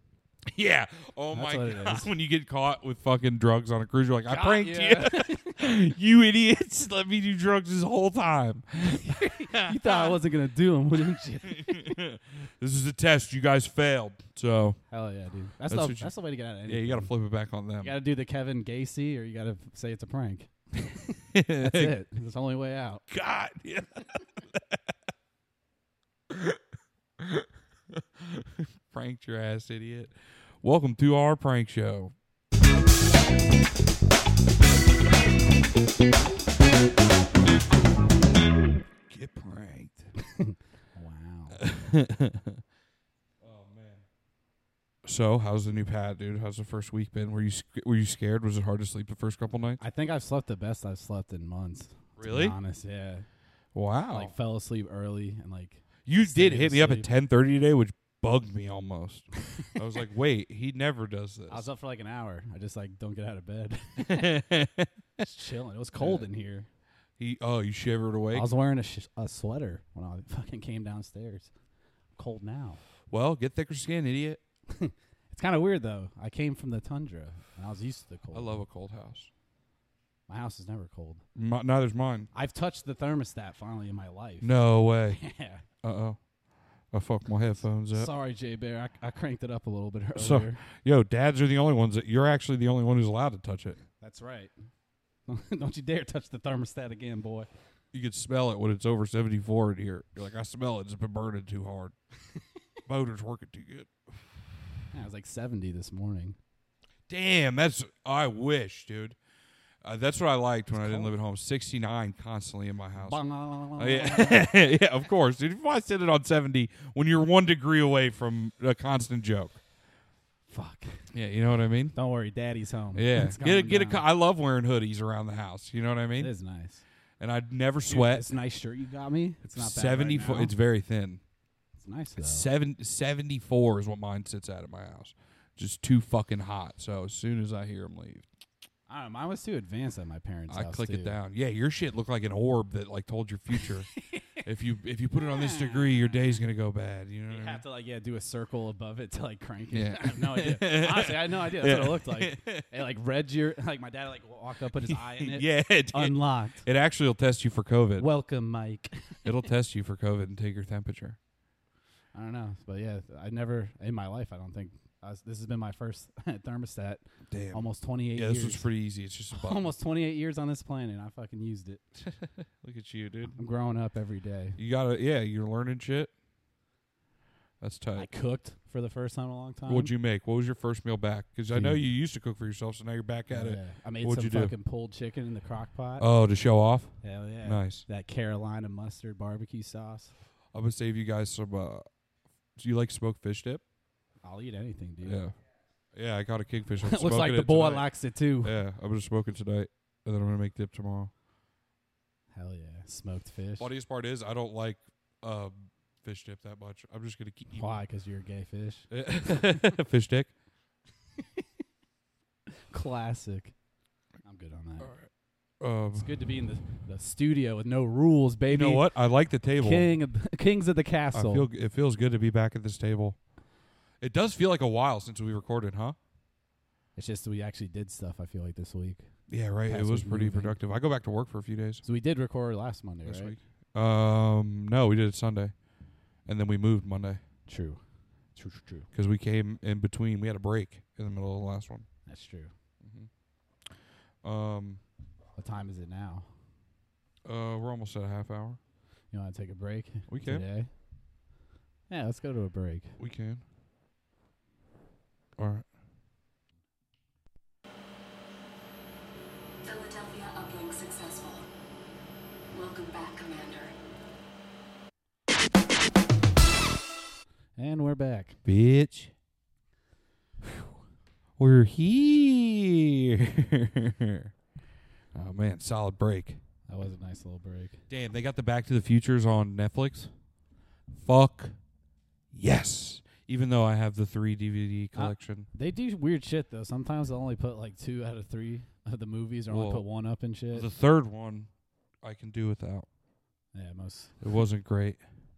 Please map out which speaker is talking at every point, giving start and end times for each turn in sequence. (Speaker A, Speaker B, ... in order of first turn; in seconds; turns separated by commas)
Speaker A: 0.5-10.2, Speaker B: 1.3-2.1, Speaker B: 4.3-5.6, Speaker B: 8.9-12.0, Speaker A: 11.1-14.8, Speaker B: 14.9-17.1, Speaker A: 15.7-16.1, Speaker A: 16.7-17.9, Speaker B: 17.8-20.5, Speaker A: 21.3-22.0, Speaker B: 21.6-23.0, Speaker A: 23.1-24.8, Speaker A: 26.3-26.6, Speaker A: 27.2-32.1, Speaker A: 39.1-40.1, Speaker B: 40.4-41.6, Speaker A: 41.6-42.6, Speaker A: 43.4-44.0, Speaker A: 45.0-49.8, Speaker B: 49.8-53.3, Speaker A: 52.2-52.6, Speaker A: 53.7-54.3, Speaker B: 54.1-57.1, Speaker A: 56.1-61.7, Speaker B: 61.5-64.4, Speaker A: 64.0-64.9, Speaker B: 65.2-66.7, Speaker A: 66.0-66.3, Speaker A: 67.2-68.5, Speaker B: 68.3-71.5, Speaker B: 72.2-72.8, Speaker A: 73.1-74.4, Speaker B: 74.7-78.6, Speaker A: 78.3-79.3, Speaker B: 80.3-81.2, Speaker A: 81.3-82.3, Speaker B: 82.3-84.5, Speaker A: 84.4-85.2, Speaker B: 85.1-85.6, Speaker A: 85.8-86.2, Speaker A: 86.9-88.1, Speaker B: 87.9-90.6, Speaker A: 90.2-93.8, Speaker B: 94.0-94.5, Speaker B: 95.3-97.5, Speaker A: 97.9-102.0, Speaker A: 102.9-104.2, Speaker B: 104.9-106.4, Speaker A: 107.1-109.2, Speaker A: 109.8-113.2, Speaker B: 110.7-111.1, Speaker B: 113.0-114.5, Speaker A: 113.8-119.6, Speaker B: 120.5-121.0, Speaker A: 121.1-122.0, Speaker B: 122.0-124.1, Speaker A: 122.9-126.3, Speaker B: 126.2-126.8, Speaker A: 127.2-128.3, Speaker B: 127.9-130.5, Speaker A: 129.6-131.2, Speaker B: 131.8-132.4, Speaker A: 132.2-138.3, Speaker B: 138.9-141.2, Speaker A: 140.5-143.9, Speaker B: 143.6-144.4, Speaker A: 144.4-147.6, Speaker B: 145.2-146.2, Speaker B: 147.3-156.7, Speaker A: 149.7-152.7, Speaker A: 154.8-158.1, Speaker B: 158.0-159.5, Speaker A: 159.2-161.2, Speaker B: 162.1-168.7, Speaker A: 167.3-169.7, Speaker B: 169.3-171.8, Speaker A: 172.0-173.4, Speaker B: 173.3-174.6, Speaker A: 174.6-176.1, Speaker A: 177.6-178.1, Speaker B: 177.9-179.9, Speaker A: 179.7-184.5, Speaker B: 181.5-181.8, Speaker B: 183.3-186.1, Speaker A: 186.0-187.8, Speaker B: 187.0-190.1, Speaker A: 190.5-191.8, Speaker A: 192.6-193.6, Speaker B: 194.2-195.2, Speaker A: 195.0-195.3, Speaker A: 195.9-197.9, Speaker B: 196.8-198.5, Speaker A: 198.4-201.1, Speaker B: 202.3-203.7, Speaker A: 203.6-207.8, Speaker B: 207.5-209.6, Speaker A: 208.9-210.3, Speaker B: 212.7-213.5, Speaker B: 214.2-214.9, Speaker A: 214.8-215.1, Speaker A: 215.6-216.1, Speaker B: 215.9-218.9, Speaker A: 218.5-219.9, Speaker B: 219.6-221.5, Speaker A: 221.1-223.2, Speaker A: 224.0-226.0, Speaker B: 227.0-229.1, Speaker A: 229.3-231.8, Speaker B: 229.7-230.6, Speaker B: 231.8-233.3, Speaker A: 233.1-235.6, Speaker A: 236.3-237.2, Speaker B: 237.5-238.9, Speaker A: 238.9-241.9, Speaker B: 242.1-242.5, Speaker A: 242.8-243.1, Speaker A: 244.2-244.8, Speaker B: 245.4-246.3, Speaker A: 247.2-248.6, Speaker B: 249.1-250.7, Speaker A: 250.1-250.4, Speaker B: 251.9-253.0, Speaker A: 253.0-253.4, Speaker A: 255.4-255.7, Speaker C: 259.6-261.5, Speaker C: 262.5-263.7, Speaker B: 267.6-268.4, Speaker A: 268.4-269.1, Speaker A: 271.4-274.3, Speaker A: 275.1-276.4, Speaker B: 276.7-277.8, Speaker A: 277.9-280.1, Speaker A: 280.9-281.6, Speaker A: 282.3-285.5, Speaker B: 284.9-290.7, Speaker A: 289.5-289.8, Speaker A: 290.5-291.5, Speaker A: 292.0-292.9, Speaker B: 293.5-294.1, Speaker A: 294.2-295.0